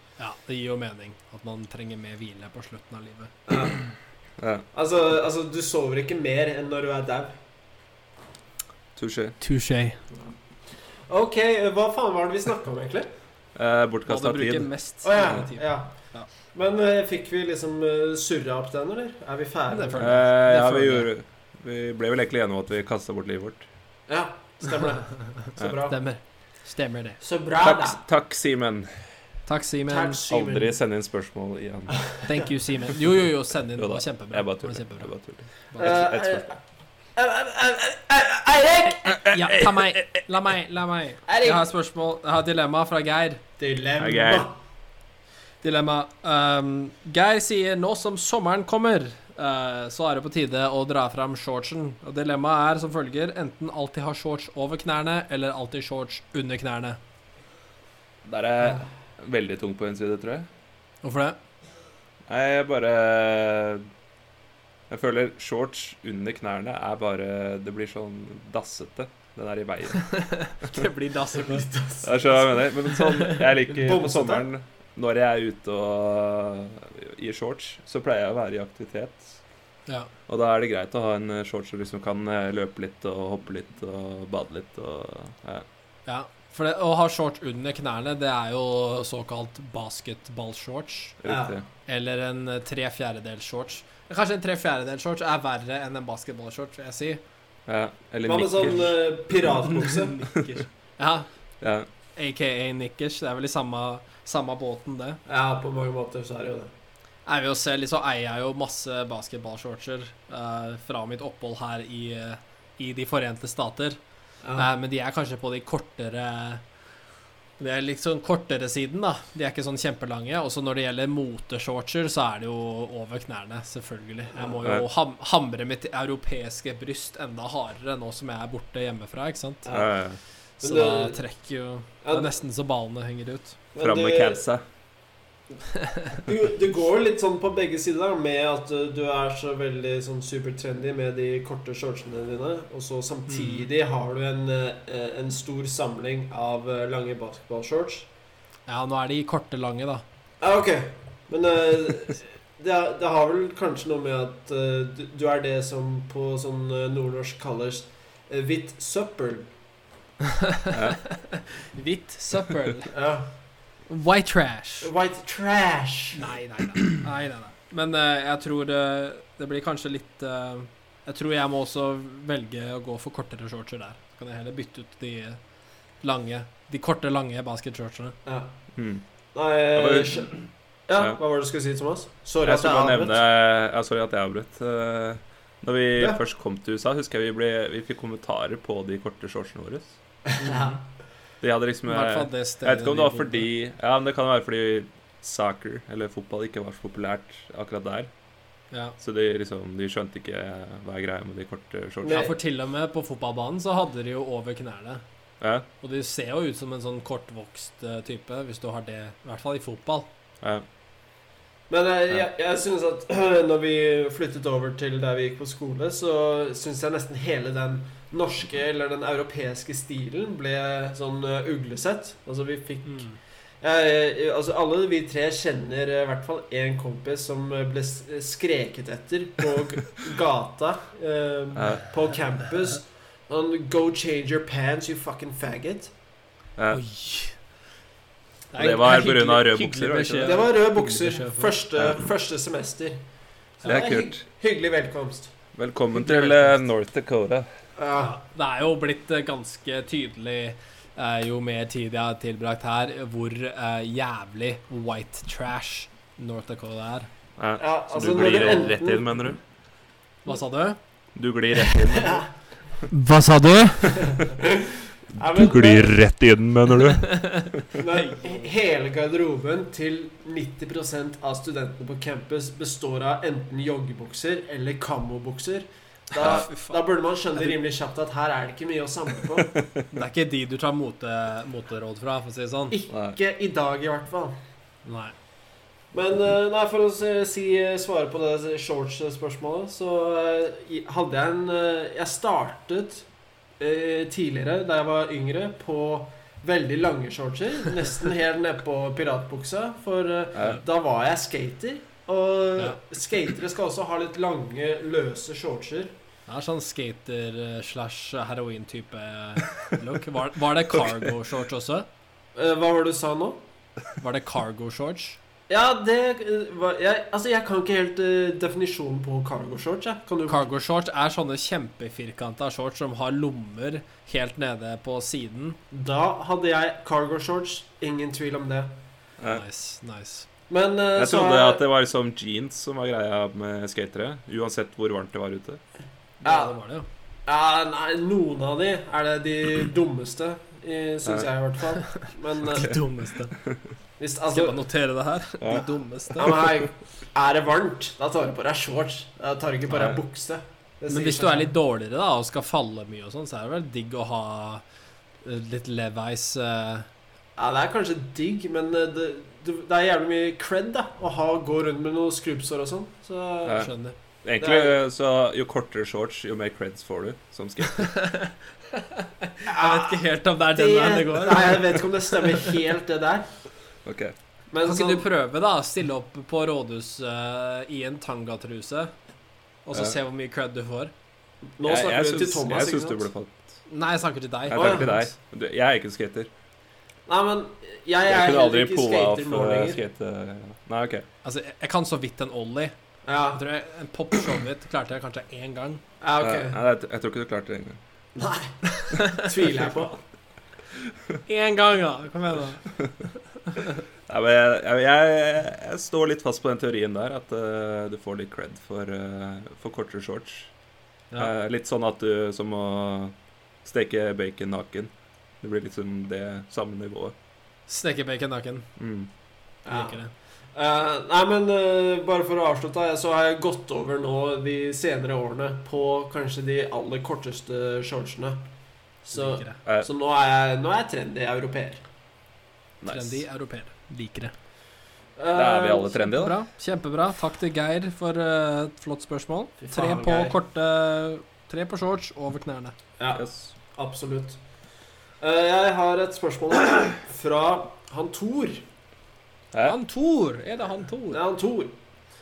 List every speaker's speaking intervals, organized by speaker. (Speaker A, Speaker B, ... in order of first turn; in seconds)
Speaker A: 0.2-3.3, 9.4-10.0, 14.1-16.3, 19.7-21.1, 25.1-27.2, 29.5-30.2, 32.2-35.1, 39.2-43.4, 45.6-57.0, 61.0-61.4, 70.0-71.7, 72.9-73.4, 86.1-91.2, 91.9-97.2, 99.7-101.3, 102.2-105.2, 107.3-114.0, 114.6-116.6, 117.6-129.7, 130.6-133.6, 135.8-136.2, 143.3-143.7, 148.7-150.0, 160.4-162.9, 163.9-164.9, 166.1-175.4, 176.0-178.2, 190.4-190.8, 191.9-193.5, 198.7-199.0, 202.1-205.0, 205.8-210.1, 222.9-223.2, 236.7-237.4, 238.5-241.6, 245.9-246.6, 247.9-257.1, 260.3-260.8, 262.9-264.2, 266.9-268.5, 276.1-276.8, 279.9-282.8, 284.9-285.1, 306.3-311.9, 314.0-315.2, 320.3-325.6, 329.3-330.3, 336.2-336.9, 341.8-343.4, 344.3-346.5, 350.9-354.6, 355.2-356.9, 363.5-363.9, 367.7-372.6, 374.6-378.9, 379.7-380.9, 383.7-385.1, 391.2-392.8, 393.3-395.8, 398.7-399.3, 401.3-402.7, 403.5-403.8, 417.7-418.7, 419.7-420.1, 429.1-429.6, 432.9-434.3, 436.1-442.8, 449.6-451.2
Speaker B: 3.5-3.8, 4.7-7.3, 11.1-13.1, 15.0-15.9, 16.5-20.2, 24.1-26.0, 27.2-28.0, 29.9-30.8, 35.8-36.6, 37.2-39.2, 41.3-41.7, 43.6-44.6, 71.4-72.5, 73.7-74.5, 91.3-91.6, 98.2-100.2, 105.3-106.7, 114.4-114.7, 129.7-129.9, 130.6-131.2, 132.0-132.3, 133.7-134.4, 136.1-148.1, 150.4-159.5, 162.9-163.3, 164.8-166.2, 178.3-178.5, 179.3-183.2, 190.3-190.8, 202.0-202.3, 211.7-223.1, 223.6-235.9, 240.2-243.0, 243.6-245.3, 247.8-248.2, 257.6-259.3, 261.6-262.3, 263.9-266.0, 267.8-279.6, 282.7-284.4, 285.9-293.1, 293.6-305.9, 312.4-313.4, 315.5-320.5, 325.7-328.7, 330.5-331.6, 336.2-336.6, 337.3-342.8, 344.0-344.6, 346.2-351.5, 357.4-363.7, 364.4-364.8, 369.5-373.3, 374.5-375.1, 381.6-383.1, 384.6-384.9, 387.1-389.8, 393.1-393.4, 396.0-396.6, 398.2-400.0, 419.7-420.0, 420.6-428.4, 429.1-431.8, 435.2-436.1, 439.6-440.4, 443.0-444.4, 445.2-448.6, 451.1-451.8
Speaker C: 4.4-4.7, 9.0-9.4, 13.6-14.7, 20.0-23.7, 27.6-28.9, 30.3-32.0, 33.8-36.5, 39.1-40.0, 44.0-44.5, 58.2-60.5, 62.3-63.9, 64.9-70.1, 72.0-79.4, 80.3-85.7, 91.2-91.7, 97.7-99.6, 101.6-101.9, 129.7-130.2, 133.8-134.6, 160.7-161.0, 178.8-179.0, 179.8-180.3, 182.4-190.0, 191.4-198.1, 199.0-202.3, 205.4-205.7, 231.6-231.8, 238.6-240.4, 241.8-242.1, 243.7-244.2, 245.6-247.5, 257.4-259.4, 261.1-262.3, 265.2-267.6, 279.6-279.8, 282.9-283.2, 331.0-335.6, 343.4-343.6, 345.4-345.7, 349.7-350.0, 364.2-367.9, 373.9-374.1, 381.6-383.5, 384.5-386.3, 388.1-391.1, 396.2-397.8, 404.1-410.5, 411.2-417.1, 418.8-419.1, 432.8-433.2, 435.3-436.4, 443.1-443.5